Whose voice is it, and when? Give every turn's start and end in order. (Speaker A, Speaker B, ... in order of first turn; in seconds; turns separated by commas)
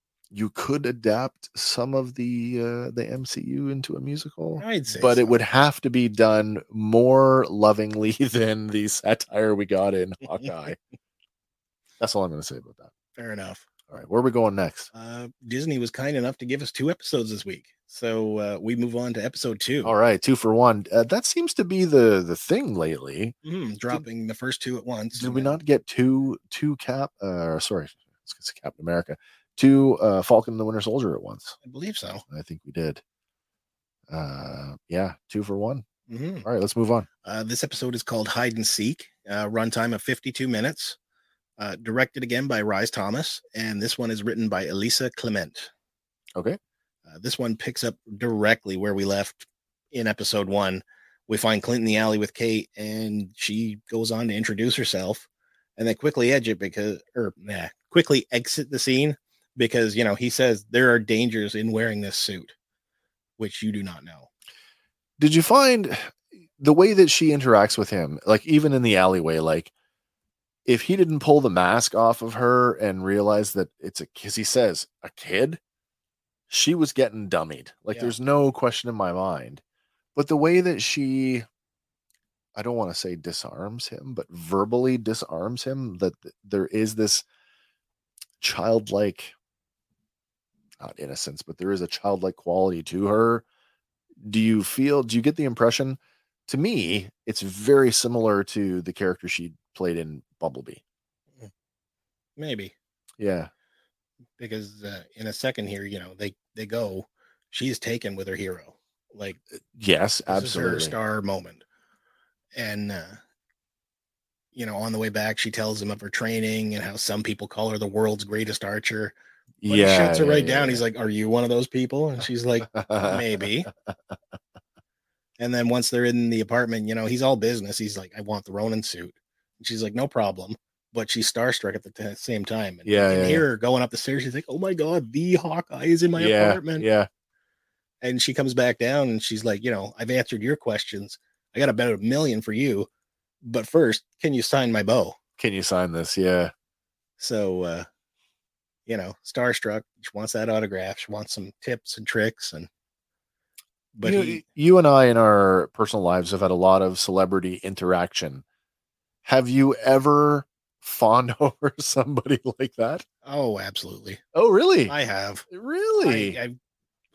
Speaker A: 0.3-10.8, Speaker B: 4.6-5.4, Speaker A: 12.0-12.9, Speaker B: 13.2-13.7, Speaker A: 13.9-14.9, Speaker B: 14.9-19.9, Speaker A: 19.8-23.3, Speaker B: 23.4-25.6, Speaker A: 25.2-31.6, Speaker B: 31.6-32.2, Speaker A: 32.3-33.0, Speaker A: 34.1-35.8, Speaker B: 36.1-36.5, Speaker A: 36.4-37.1, Speaker B: 37.2-41.0, Speaker B: 41.6-45.7, Speaker B: 47.1-55.2, Speaker B: 55.8-62.5, Speaker B: 63.4-64.3, Speaker A: 65.2-69.7, Speaker A: 70.7-75.6, Speaker A: 76.5-79.6, Speaker A: 80.2-81.5, Speaker A: 82.5-87.2, Speaker A: 88.4-89.3, Speaker A: 90.8-93.4, Speaker A: 94.2-100.8, Speaker B: 102.4-102.7, Speaker A: 103.2-103.5, Speaker B: 104.4-109.4, Speaker A: 109.7-110.9, Speaker B: 110.3-111.6, Speaker B: 112.5-113.2, Speaker B: 114.5-119.1, Speaker A: 119.6-120.8, Speaker B: 119.7-123.7, Speaker A: 122.7-123.9, Speaker B: 125.4-136.8, Speaker A: 132.8-133.4, Speaker A: 136.2-137.1, Speaker B: 138.0-142.9, Speaker B: 143.4-145.2, Speaker A: 145.4-146.5, Speaker B: 147.2-147.9, Speaker B: 148.9-152.7, Speaker B: 153.9-154.4, Speaker A: 154.0-158.4, Speaker A: 159.2-163.0, Speaker B: 163.2-164.2, Speaker A: 164.3-164.9, Speaker B: 164.9-165.4, Speaker A: 165.5-166.4, Speaker B: 166.0-166.6